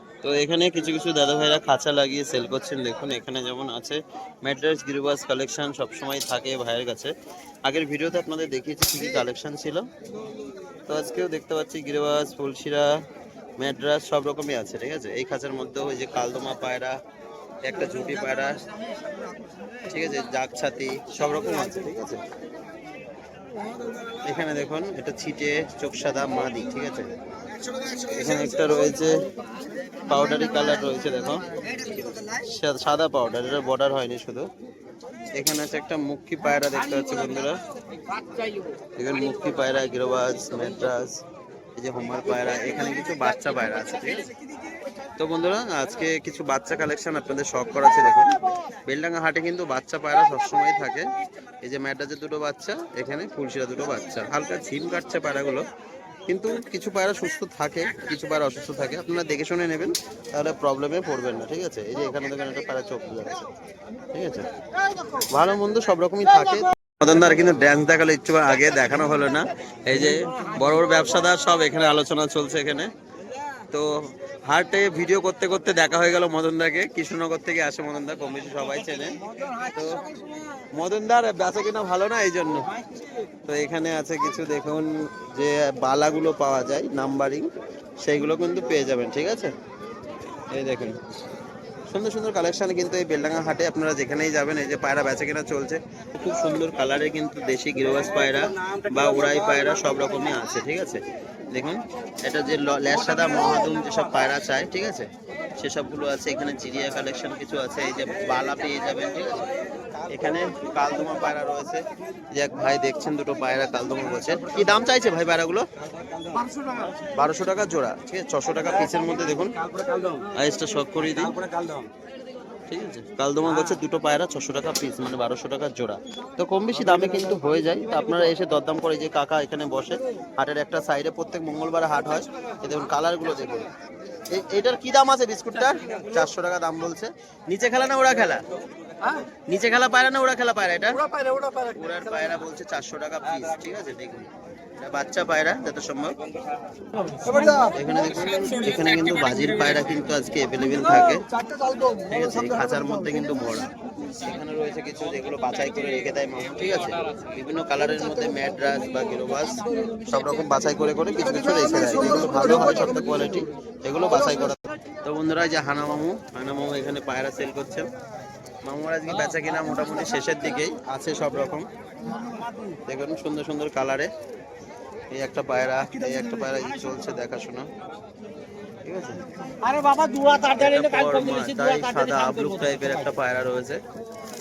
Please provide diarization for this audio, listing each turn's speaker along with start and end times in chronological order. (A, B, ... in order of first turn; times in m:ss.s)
0:00.2-0:07.1 A
0:07.6-0:09.9 A
0:10.9-0:12.9 A
0:13.6-0:17.0 A
0:17.6-0:18.6 A
0:19.8-0:22.2 A
0:24.2-0:27.1 A
0:28.0-0:29.2 A
0:30.0-0:31.6 A
0:32.2-0:34.5 A
0:35.3-0:37.6 A
0:39.0-0:41.2 A
0:41.8-0:44.3 A
0:45.2-0:51.1 A
0:51.6-0:55.6 A
0:56.3-1:03.5 A
1:04.1-1:04.5 A
1:05.2-1:12.9 A
1:13.7-1:20.0 A
1:20.7-1:22.7 A
1:23.5-1:27.5 A
1:28.0-1:29.5 A
1:30.5-1:31.0 A
1:31.9-1:49.5 A
1:50.1-1:55.7 A
1:56.3-1:56.8 B
1:57.0-1:59.6 A
1:59.6-2:00.3 B
2:00.3-2:01.4 A
2:01.4-2:01.9 B
2:02.7-2:13.7 A
2:14.3-2:18.4 A
2:19.5-2:26.2 A
2:21.2-2:21.6 B
2:27.0-2:27.7 B
2:27.6-2:31.3 A
2:31.4-2:32.0 B
2:32.0-2:47.9 A
2:48.6-2:51.7 A
2:52.2-2:52.7 B
2:52.9-2:54.1 A
2:55.1-2:57.7 A
2:58.8-2:59.2 A
2:59.6-3:01.1 B
3:00.5-3:03.8 A